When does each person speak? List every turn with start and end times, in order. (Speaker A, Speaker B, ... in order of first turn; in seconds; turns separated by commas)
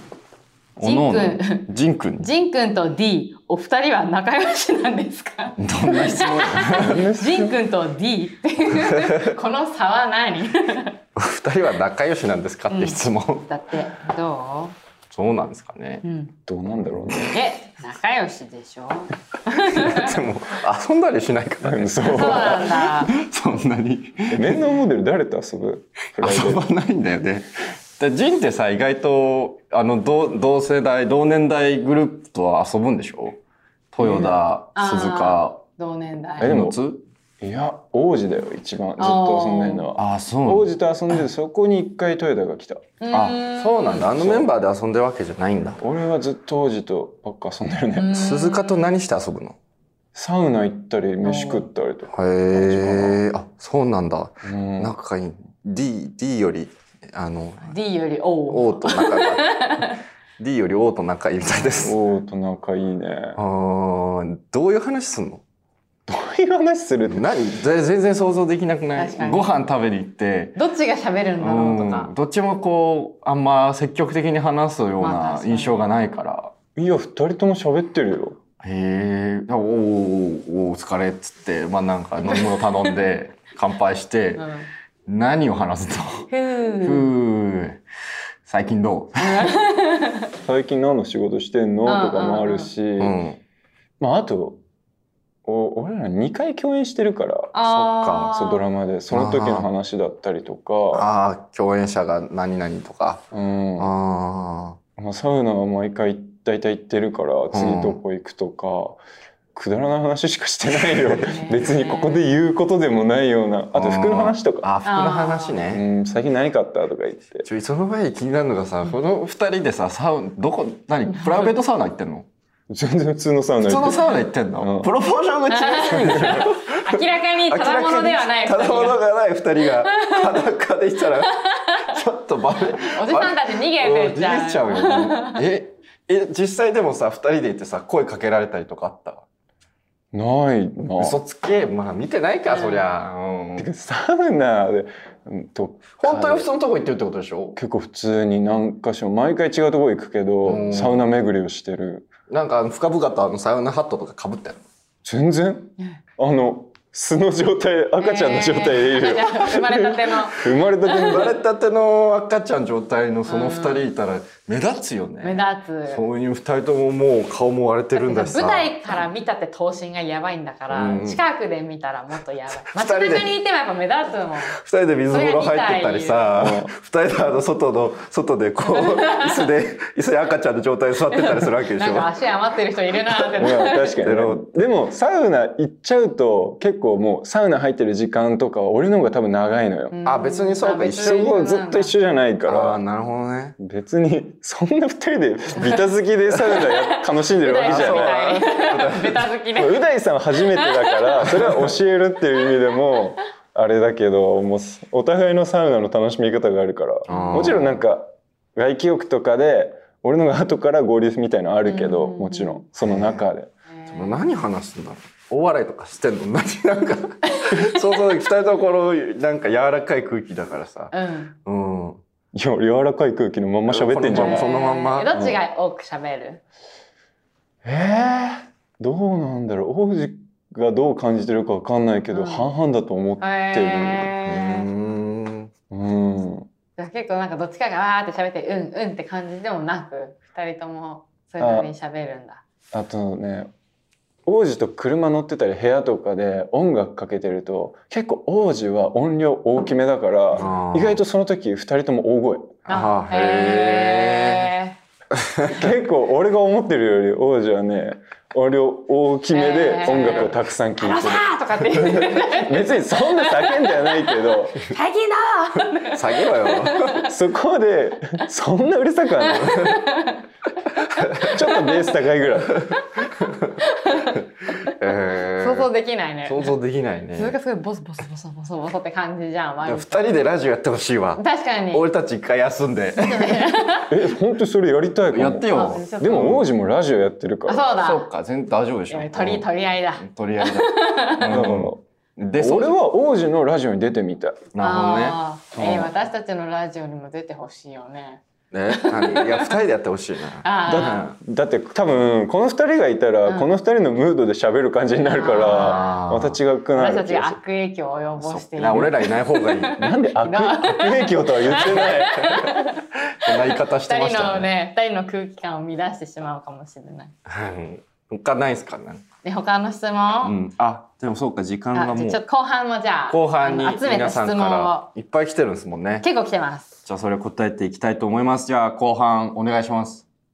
Speaker A: 0.8-2.3, Speaker B: 0.8-11.0, Speaker A: 5.6-7.0, Speaker C: 6.7-7.6, Speaker A: 8.8-9.4, Speaker A: 11.2-13.5, Speaker B: 12.7-14.8, Speaker A: 15.1-16.0, Speaker B: 16.0-16.3, Speaker C: 16.5-17.4, Speaker B: 17.3-20.2, Speaker A: 19.6-24.7, Speaker C: 21.6-22.6, Speaker B: 22.1-23.1, Speaker C: 24.3-26.6, Speaker A: 26.2-33.4, Speaker A: 33.9-35.6, Speaker C: 34.0-34.4, Speaker B: 34.8-36.6, Speaker A: 36.4-37.0, Speaker C: 36.4-36.8, Speaker C: 37.4-42.9, Speaker B: 39.0-39.9, Speaker A: 40.0-40.7, Speaker B: 43.0-44.1, Speaker A: 43.1-45.8, Speaker C: 44.1-44.5, Speaker C: 45.8-48.2, Speaker B: 48.0-48.9, Speaker A: 48.1-49.6, Speaker C: 50.1-53.2, Speaker B: 51.2-51.6, Speaker A: 52.1-57.8, Speaker C: 54.5-55.0, Speaker B: 57.6-60.0, Speaker A: 58.5-59.8, Speaker A: 60.4-62.0, Speaker C: 61.8-63.4, Speaker A: 63.4-65.4, Speaker C: 66.1-67.4, Speaker A: 67.1-70.6, Speaker B: 69.0-69.5, Speaker B: 70.6-72.1, Speaker A: 71.4-76.5, Speaker B: 75.0-75.8, Speaker C: 76.8-78.4, Speaker A: 78.6-84.5, Speaker B: 82.3-83.0, Speaker B: 84.4-84.7, Speaker A: 85.1-87.8, Speaker B: 86.3-87.1, Speaker A: 88.5-89.5, Speaker B: 89.2-90.3, Speaker C: 90.4-93.2, Speaker B: 91.8-92.7, Speaker A: 93.0-93.4, Speaker C: 94.0-94.6, Speaker C: 95.5-97.5, Speaker B: 97.5-98.6, Speaker A: 97.6-98.4, Speaker C: 98.3-101.1, Speaker A: 99.1-99.7, Speaker A: 100.9-103.2, Speaker C: 103.3-103.9, Speaker A: 103.8-104.8, Speaker C: 105.0-109.0, Speaker A: 107.5-108.0, Speaker C: 109.5-114.7, Speaker A: 110.7-111.4, Speaker B: 111.2-112.2, Speaker A: 113.7-115.8, Speaker B: 114.8-115.6, Speaker C: 115.7-117.5, Speaker A: 117.5-122.3, Speaker C: 122.7-124.9, Speaker A: 123.6-139.2, Speaker B: 125.5-129.0, Speaker B: 129.9-130.4, Speaker B: 131.3-132.0, Speaker B: 132.8-135.4, Speaker C: 140.1-141.2, Speaker A: 141.0-143.7, Speaker B: 142.5-142.9, Speaker C: 143.6-146.5, Speaker A: 146.0-147.6, Speaker C: 147.6-152.1, Speaker A: 150.4-151.1, Speaker A: 152.3-154.6, Speaker C: 155.0-161.4, Speaker B: 158.0-161.2, Speaker A: 160.9-169.0, Speaker B: 163.3-163.9, Speaker B: 165.2-166.0, Speaker B: 168.0-174.6, Speaker A: 170.7-171.2, Speaker A: 172.6-173.3, Speaker A: 174.5-182.1, Speaker B: 175.1-176.3, Speaker C: 176.4-176.7, Speaker B: 181.8-183.9, Speaker A: 183.1-184.4, Speaker C: 183.4-189.9, Speaker B: 189.9-191.9, Speaker A: 190.1-191.3, Speaker C: 191.0-192.8, Speaker A: 192.5-193.6, Speaker C: 193.6-198.3, Speaker A: 196.4-196.7, Speaker B: 196.5-199.8, Speaker A: 197.6-199.3, Speaker C: 199.6-213.5, Speaker B: 200.4-201.3, Speaker A: 201.4-201.7, Speaker A: 207.1-207.8, Speaker B: 211.6-212.6, Speaker A: 212.8-213.2, Speaker B: 213.7-214.2, Speaker A: 213.9-220.9, Speaker B: 217.3-217.9, Speaker B: 220.9-221.3, Speaker A: 221.4-222.0, Speaker C: 222.3-224.5, Speaker A: 223.7-225.1, Speaker B: 224.1-226.4, Speaker C: 225.1-225.4, Speaker C: 227.6-234.1, Speaker B: 232.1-232.5, Speaker B: 233.2-234.7, Speaker A: 234.2-235.5, Speaker C: 235.7-236.5, Speaker B: 236.8-242.4, Speaker C: 241.4-241.7, Speaker C: 242.7-243.5, Speaker C: 244.3-252.6, Speaker A: 250.3-251.0, Speaker A: 252.7-254.5, Speaker B: 252.7-254.8, Speaker A: 255.2-255.7, Speaker C: 255.5-264.6, Speaker B: 259.3-267.1, Speaker A: 259.9-260.3, Speaker A: 265.9-267.0, Speaker C: 267.0-269.8, Speaker B: 269.2-270.2, Speaker A: 269.4-269.8, Speaker A: 270.9-271.4, Speaker B: 271.2-271.7, Speaker C: 271.2-272.7, Speaker A: 272.5-273.6, Speaker B: 273.6-274.8, Speaker A: 274.6-275.7, Speaker B: 275.4-276.6, Speaker A: 276.2-277.4, Speaker B: 277.1-280.1, Speaker A: 279.6-283.5, Speaker B: 281.2-281.9, Speaker B: 283.0-283.9, Speaker C: 283.9-287.6, Speaker A: 285.1-286.4, Speaker B: 285.5-286.3, Speaker B: 287.5-288.1, Speaker A: 287.8-292.8, Speaker B: 288.9-291.3, Speaker C: 291.3-291.8, Speaker C: 292.4-294.5, Speaker A: 294.5-295.2, Speaker B: 294.6-299.5, Speaker C: 295.6-295.9, Speaker A: 298.5-301.2, Speaker B: 300.4-301.0, Speaker C: 300.7-307.4, Speaker B: 305.1-305.9, Speaker A: 305.5-306.4, Speaker B: 306.8-317.1, Speaker A: 308.2-309.8, Speaker C: 309.8-312.5, Speaker A: 312.2-312.5, Speaker A: 313.1-314.5, Speaker A: 317.3-319.0, Speaker B: 319.2-320.4, Speaker A: 320.2-322.2, Speaker B: 321.7-324.9, Speaker A: 323.1-326.1, Speaker B: 326.0-326.7, Speaker A: 326.9-330.1